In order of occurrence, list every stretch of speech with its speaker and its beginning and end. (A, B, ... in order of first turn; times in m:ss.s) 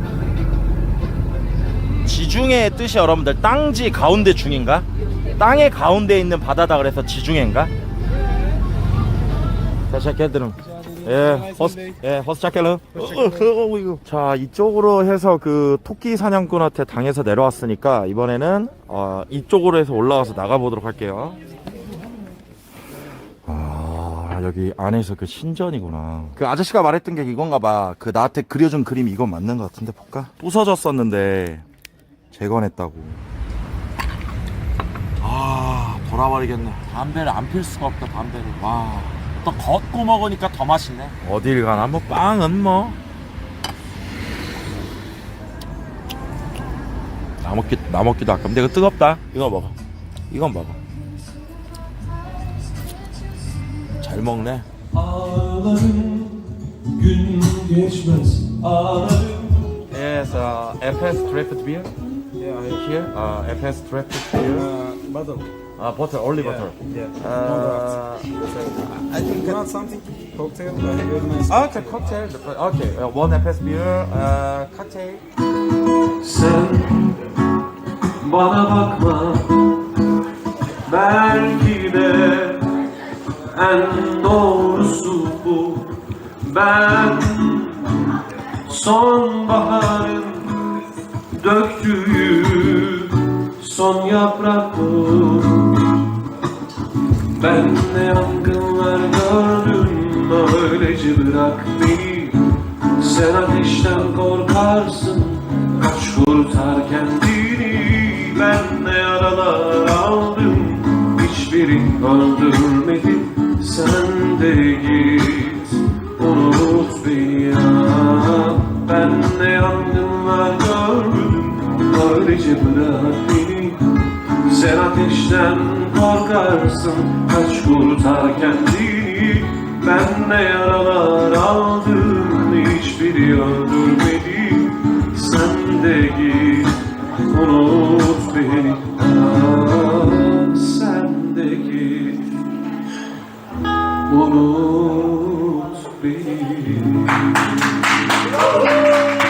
0:02.0-0:07.7 A
0:09.9-0:21.4 A
0:23.5-0:31.6 A
0:32.3-0:33.2 A
0:35.2-0:43.0 A
0:47.4-0:49.8 A
0:50.3-0:50.8 A
0:54.0-0:54.7 A
0:54.9-0:59.8 B
0:59.9-1:01.9 A
1:02.4-1:03.0 C
1:03.0-1:04.7 A
1:04.6-1:05.5 C
1:05.8-1:09.7 A
1:06.4-1:08.0 C
1:08.6-1:11.8 C
1:11.4-1:15.2 A
1:16.2-1:17.3 B
1:18.2-1:19.8 B
1:20.9-1:22.8 B
1:23.5-1:30.8 B
1:31.3-1:36.0 B
1:37.3-1:42.4 B
1:43.0-2:22.4 B
2:24.1-2:27.7 B